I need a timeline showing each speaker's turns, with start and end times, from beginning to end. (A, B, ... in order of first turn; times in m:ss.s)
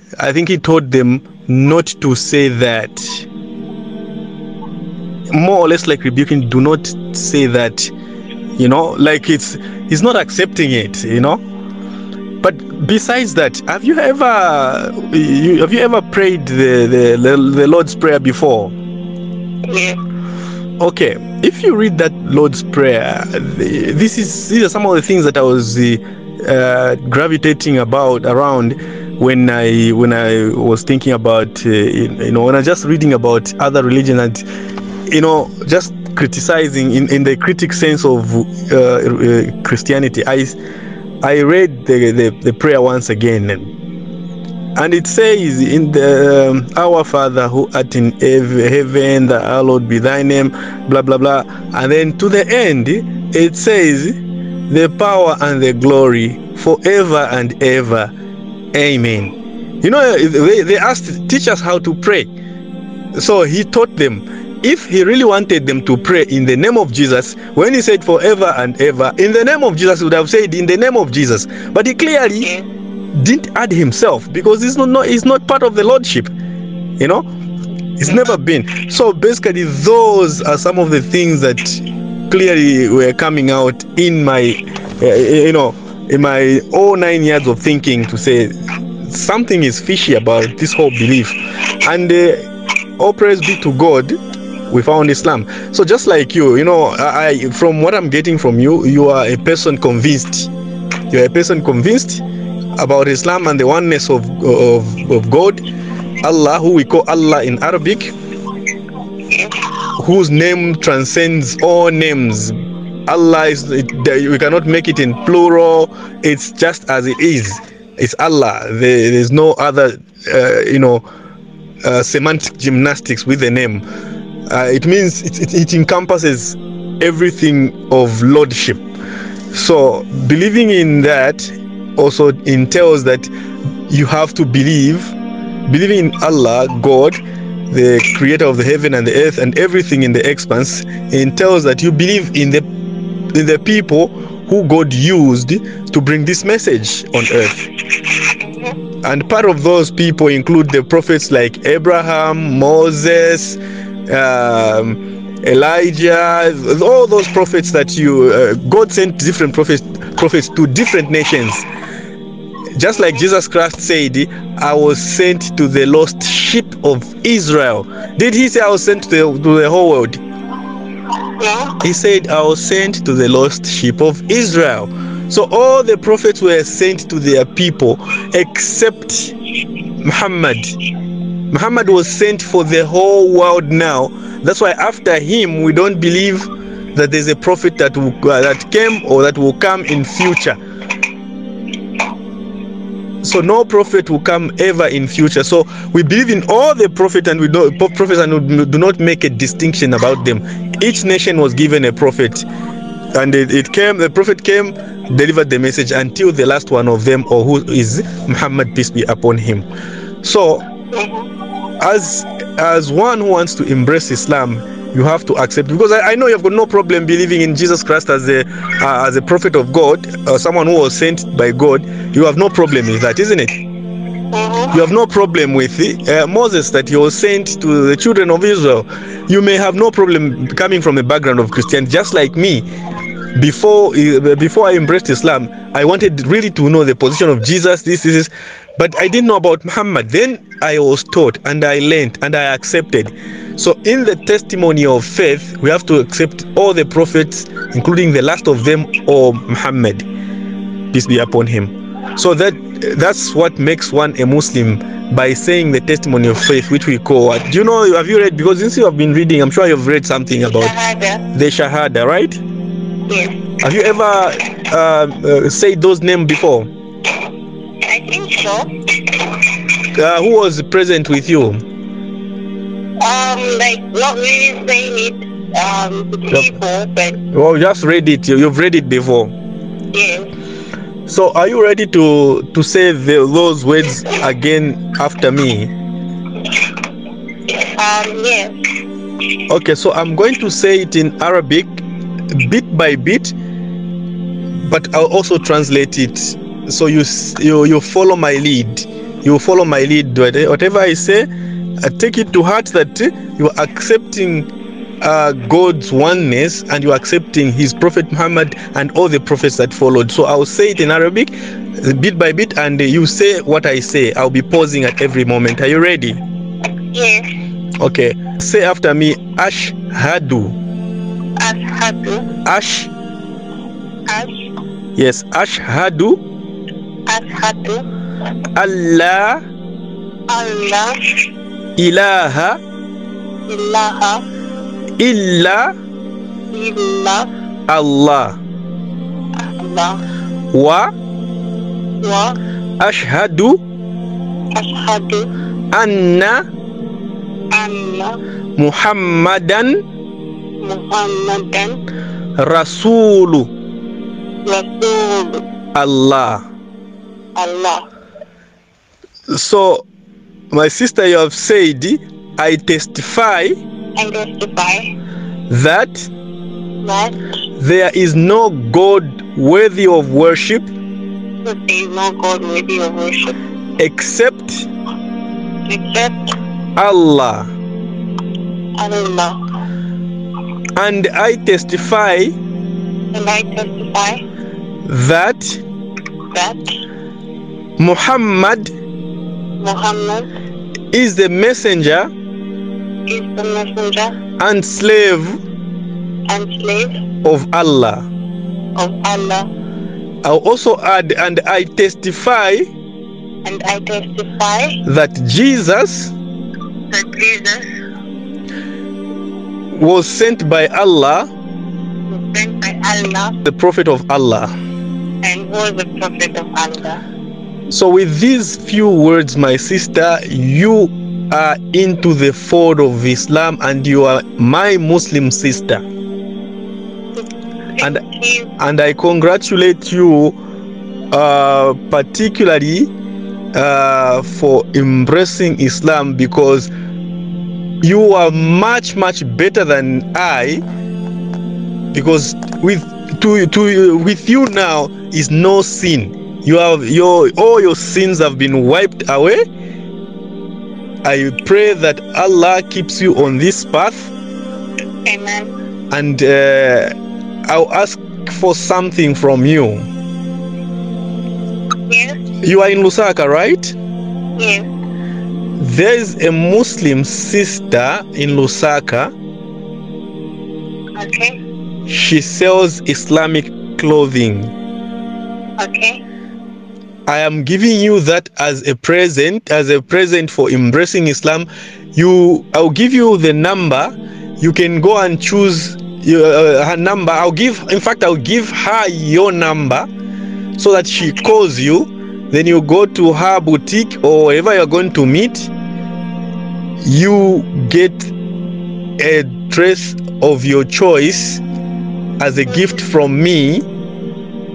0:00.2-0:03.2 A
0:05.3-0:07.9 A
0:08.6-0:11.4 A
0:12.4-0:18.7 A
0:19.7-0:20.0 B
0:20.8-0:34.4 A
0:35.1-0:40.6 A
0:41.2-0:43.7 A
0:44.8-0:54.2 A
0:54.7-0:58.1 A
0:58.7-1:02.3 A
1:03.2-1:12.5 A
1:12.4-1:12.7 B
1:13.2-1:16.3 A
1:17.0-1:17.2 A
1:18.0-1:28.5 A
1:29.0-1:32.5 A
1:33.0-1:34.2 A
1:34.7-1:40.5 A
1:41.1-1:42.2 A
1:42.8-1:45.6 A
1:46.2-1:48.1 A
1:49.3-1:49.6 B
1:50.0-1:52.5 A
1:53.1-2:01.0 A
2:01.8-2:03.8 A
2:04.5-2:08.8 A
2:09.5-2:13.3 A
2:13.9-2:15.2 A
2:15.7-2:22.6 A
2:23.3-2:27.7 A
2:28.4-2:28.7 B
2:29.0-2:41.7 A
2:42.8-2:50.2 A
2:51.4-2:51.8 B
2:51.8-2:59.3 A
3:00.0-3:00.7 A
3:01.5-3:10.6 A
3:13.2-3:22.5 A
3:23.2-3:29.6 A
3:30.2-3:30.6 A
3:30.9-3:31.3 B
3:31.8-3:43.5 A
3:44.3-3:44.8 B
3:44.7-3:52.6 A
3:53.4-4:10.0 A
4:10.9-4:20.7 A
4:20.4-4:21.2 B
4:21.3-4:22.4 A
4:23.1-4:23.4 B
4:23.6-4:26.7 A
4:27.8-4:29.4 B
4:29.9-4:31.6 A
4:33.0-4:37.2 B
4:37.3-4:39.3 A
4:39.9-4:40.3 B
4:41.1-4:45.7 A
4:47.5-4:48.5 B
4:49.5-4:53.3 A
4:54.6-5:01.3 A
5:01.8-5:04.5 A
5:05.0-5:16.2 A
5:16.9-5:17.3 B
5:17.8-5:20.6 A
5:21.4-5:22.2 B
5:22.4-5:22.9 A
5:24.1-5:24.3 B
5:25.0-5:26.2 A
5:27.1-5:27.8 B
5:28.6-5:29.4 A
5:30.3-5:31.0 B
5:31.8-5:32.6 A
5:33.5-5:34.2 B
5:35.0-5:35.7 A
5:36.5-5:37.3 B
5:37.7-5:38.4 A
5:39.4-5:40.0 B
5:40.5-5:40.9 A
5:42.0-5:42.4 B
5:42.8-5:43.6 A
5:44.5-5:45.3 B
5:45.7-5:46.4 A
5:47.5-5:48.2 B
5:48.6-5:49.8 A
5:50.6-5:51.8 B
5:52.4-5:53.5 A
5:54.4-5:55.5 B
5:55.8-5:56.4 A
5:57.4-5:57.8 B
5:59.3-5:59.8 A
6:00.5-6:03.6 A
6:04.0-6:04.9 B
6:05.5-6:06.1 A
6:06.8-6:07.2 B
6:07.6-6:10.7 A
6:11.4-6:13.4 B
6:13.8-6:14.7 A
6:15.6-6:16.2 B
6:16.8-6:17.5 A
6:18.8-6:19.4 B
6:20.8-6:22.3 A
6:23.1-6:24.2 B
6:24.9-6:25.6 A
6:26.3-6:26.6 B
6:27.8-6:28.7 A
6:29.6-6:30.3 B
6:30.9-6:32.1 A
6:33.1-6:34.1 B
6:34.4-6:35.4 A
6:36.3-6:36.9 B
6:37.2-6:38.1 A
6:38.8-6:39.5 B
6:40.2-6:42.6 A
6:43.4-6:44.8 B
6:44.9-6:46.1 A
6:46.9-6:47.6 B
6:49.7-6:51.3 A
6:52.1-6:53.4 B
6:53.4-6:54.5 A
6:55.2-6:57.0 B
6:57.7-7:05.8 A
7:07.8-7:08.5 B
7:08.6-7:10.4 A
7:11.1-7:12.9 A
7:13.5-7:16.7 A
7:17.8-7:20.6 A
7:21.9-7:29.4 A
7:31.0-7:34.1 A
7:35.0-7:35.5 B
7:35.9-7:36.9 A
7:37.5-7:39.9 A
7:41.9-7:42.2 B
7:42.4-7:43.8 A
7:44.4-7:44.7 B
7:45.6-7:49.1 A
7:51.0-7:51.4 B
7:51.9-7:54.5 A
7:55.6-7:56.0 B
7:57.1-8:09.9 A
8:10.6-8:15.5 A
8:16.8-8:18.1 A
8:19.0-8:21.4 A
8:22.2-8:23.6 A